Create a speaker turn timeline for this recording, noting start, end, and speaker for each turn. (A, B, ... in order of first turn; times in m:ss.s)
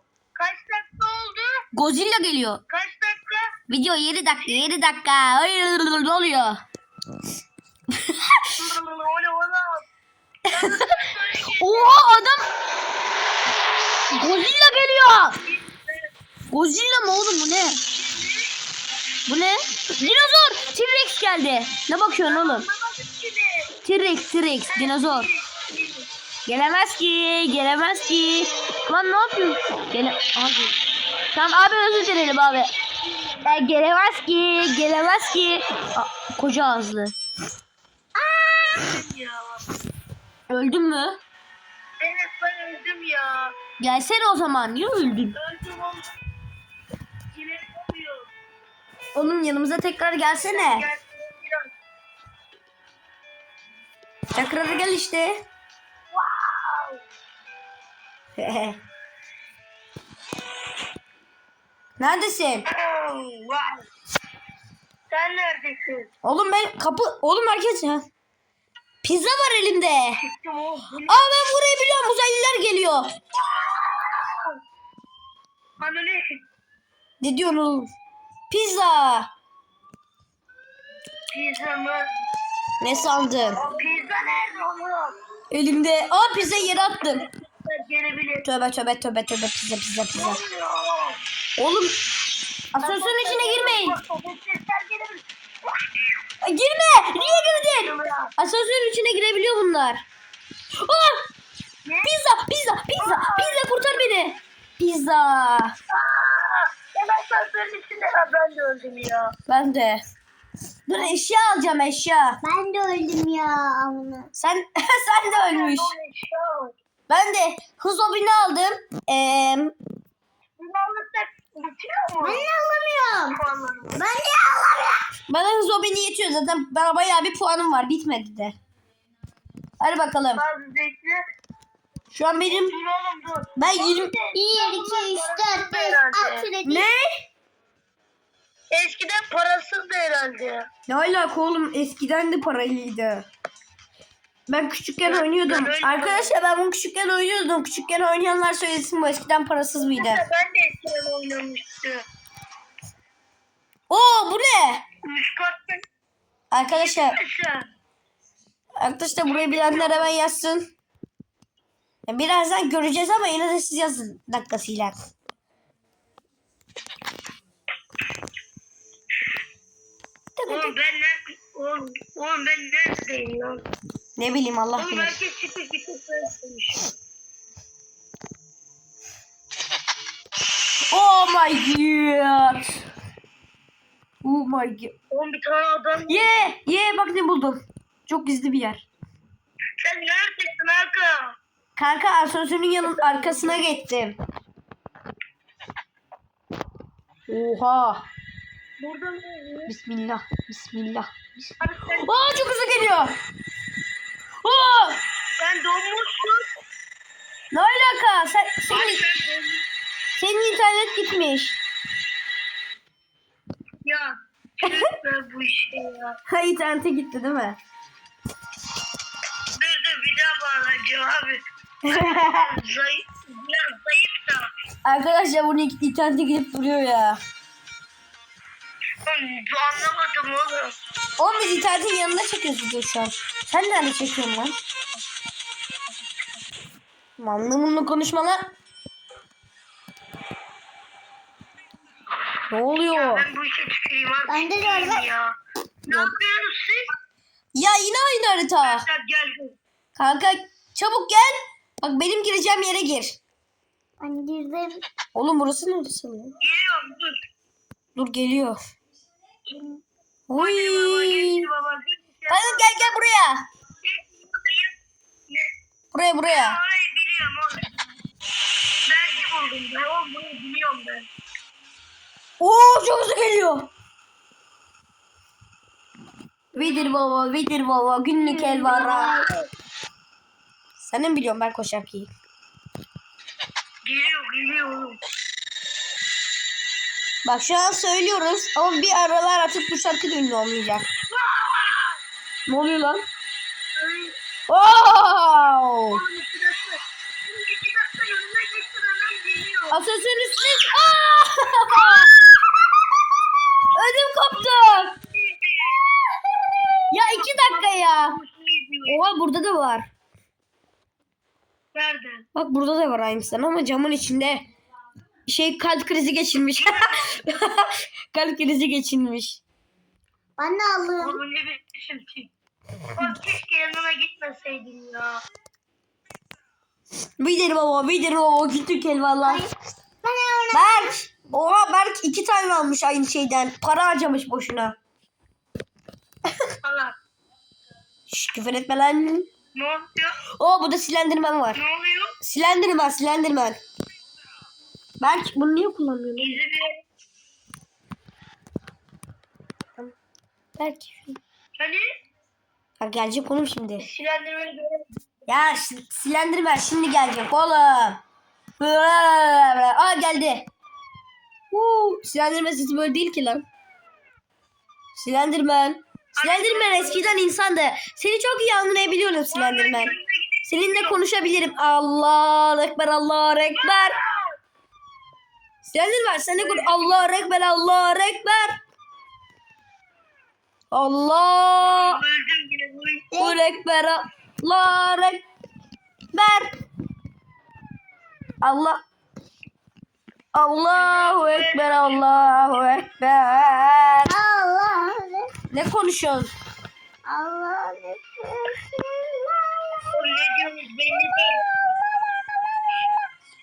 0:00.4-0:01.6 A
0:01.7-0:02.6 B
0:02.7-0:03.6 A
0:03.7-0:06.6 B
0:04.3-0:04.7 A
0:07.9-0:08.4 B
0:08.5-0:09.8 A
0:10.5-0:12.3 A
0:10.5-0:10.9 B
0:11.6-0:12.4 B
0:14.1-0:15.4 B
0:14.6-0:16.1 A
0:16.5-0:17.8 B
0:17.9-0:18.5 A
0:19.2-0:22.7 B
0:22.2-0:23.7 A
0:23.8-0:25.3 B
0:24.7-0:26.1 A
0:26.4-0:30.7 B
0:31.3-0:32.7 B
0:32.5-0:33.6 A
0:33.4-0:37.1 B
0:38.3-0:39.6 A
0:40.5-0:41.2 B
0:42.0-0:43.5 A
0:43.8-0:45.4 B
0:45.3-0:46.1 A
0:47.3-0:48.3 A
0:49.1-0:50.9 B
0:50.4-0:51.7 A
0:54.3-0:55.4 B
0:56.1-0:57.0 A
0:58.4-0:58.8 B
1:02.0-1:02.6 B
1:02.7-1:03.8 A
1:05.1-1:06.1 A
1:06.2-1:08.0 B
1:09.0-1:10.2 B
1:10.2-1:11.2 A
1:11.0-1:13.0 B
1:13.5-1:14.5 A
1:15.8-1:16.4 A
1:17.2-1:17.9 B
1:18.5-1:19.3 B
1:21.3-1:22.1 A
1:22.8-1:23.6 B
1:23.6-1:25.1 A
1:25.5-1:27.2 B
1:27.0-1:28.5 A
1:28.4-1:30.4 B
1:30.1-1:31.2 A
1:31.6-1:31.9 B
1:32.7-1:34.0 B
1:32.8-1:36.1 A
1:36.4-1:40.0 B
1:37.1-1:38.3 A
1:40.8-1:41.2 B
1:41.8-1:42.1 A
1:42.0-1:45.7 B
1:42.9-1:44.2 A
1:45.9-1:49.3 A
1:49.5-1:50.0 B
1:50.9-1:52.4 B
1:52.4-1:54.3 C
1:54.3-1:55.9 B
1:55.3-1:56.7 A
1:57.1-1:59.7 B
2:00.6-2:02.5 A
2:02.2-2:03.4 C
2:03.1-2:03.9 A
2:03.9-2:05.0 C
2:05.3-2:08.6 B
2:09.8-2:10.4 B
2:10.3-2:11.2 A
2:12.1-2:12.7 B
2:12.4-2:16.5 A
2:13.6-2:14.1 B
2:14.3-2:16.9 C
2:16.6-2:17.0 B
2:18.7-2:20.6 A
2:20.9-2:23.3 B
2:24.5-2:30.2 B
2:25.0-2:26.4 A
2:29.8-2:32.0 A
2:33.9-2:34.8 B
2:35.0-2:35.8 A
2:36.5-2:37.2 B
2:36.7-2:37.7 A
2:38.8-2:40.7 B
2:39.2-2:40.2 A
2:42.1-2:44.9 B
2:50.4-2:50.7 B
2:50.5-2:53.6 A
2:54.2-2:55.2 B
2:54.8-2:56.9 A
3:00.9-3:02.8 B
3:04.2-3:04.9 B
3:05.1-3:06.5 A
3:06.1-3:08.8 B
3:09.8-3:11.3 A
3:11.8-3:14.2 B
3:12.8-3:13.7 A
3:17.3-3:18.1 B
3:18.8-3:19.7 A
3:19.7-3:23.1 B
3:21.6-3:23.0 A
3:24.4-3:25.0 B
3:25.4-3:26.5 A
3:27.5-3:29.0 B
3:28.7-3:29.6 A
3:30.2-3:31.6 B
3:33.8-3:36.2 A
3:36.3-3:37.6 B
3:39.5-3:44.4 A
3:41.8-3:42.5 B
3:44.8-3:47.2 B
3:49.0-3:50.7 A
3:51.2-3:54.5 B
3:57.2-3:58.4 B
4:02.5-4:03.3 B
4:02.8-4:05.3 A
4:04.3-4:05.0 C
4:05.8-4:06.9 A
4:07.5-4:08.8 B
4:08.6-4:09.6 A
4:10.0-4:13.2 B
4:14.0-4:14.8 C
4:15.1-4:16.4 B
4:16.4-4:17.2 A
4:18.0-4:18.6 B
4:20.3-4:21.5 B
4:20.3-4:22.9 A
4:22.3-4:23.4 B
4:23.8-4:24.7 A
4:25.9-4:26.6 B
4:26.3-4:27.7 A
4:28.8-4:31.1 A
4:32.4-4:33.7 B
4:36.5-4:37.0 A
4:36.5-4:39.3 B
4:38.2-4:39.5 A
4:40.8-4:42.1 B
4:43.8-4:45.0 A
4:47.2-4:50.9 B
4:51.1-4:52.0 A
4:52.5-4:53.0 B
4:53.8-4:54.1 A
4:54.5-4:56.0 B
4:55.9-4:59.8 A
4:59.7-5:02.1 B
5:03.7-5:04.9 B
5:04.3-5:05.8 A
5:06.9-5:08.2 B
5:06.9-5:09.0 A
5:08.9-5:09.9 B
5:11.7-5:12.2 A
5:12.3-5:14.4 B
5:15.3-5:19.4 B
5:16.6-5:17.4 A
5:20.4-5:21.2 C
5:21.0-5:22.3 A
5:22.9-5:25.2 A
5:27.2-5:29.4 B
5:29.2-5:29.5 C
5:30.0-5:30.9 C
5:30.5-5:34.8 B
5:36.6-5:36.9 A
5:38.1-5:39.3 B
5:39.5-5:40.2 A
5:40.4-5:41.6 B
5:41.5-5:42.1 A
5:42.2-5:43.6 B
5:45.0-5:46.4 B
5:46.2-5:46.8 A
5:50.6-5:51.2 B
5:51.6-5:51.8 A
5:52.8-5:53.8 B
5:53.8-5:54.8 A
5:55.3-5:58.0 B
5:58.6-6:00.5 B
6:01.5-6:03.4 B
6:04.9-6:09.9 B
6:06.2-6:07.2 A
6:09.3-6:11.0 A
6:10.4-6:14.0 B
6:13.5-6:14.3 A
6:15.6-6:18.5 B
6:16.3-6:17.1 A
6:20.7-6:22.0 B
6:21.6-6:23.1 A
6:23.1-6:25.2 B
6:23.1-6:23.4 C
6:26.1-6:26.5 B
6:28.4-6:28.8 B
6:30.3-6:34.1 B
6:30.6-6:32.1 A
6:34.0-6:35.3 C
6:35.5-6:36.3 B
6:37.0-6:39.8 C
6:39.9-6:41.4 A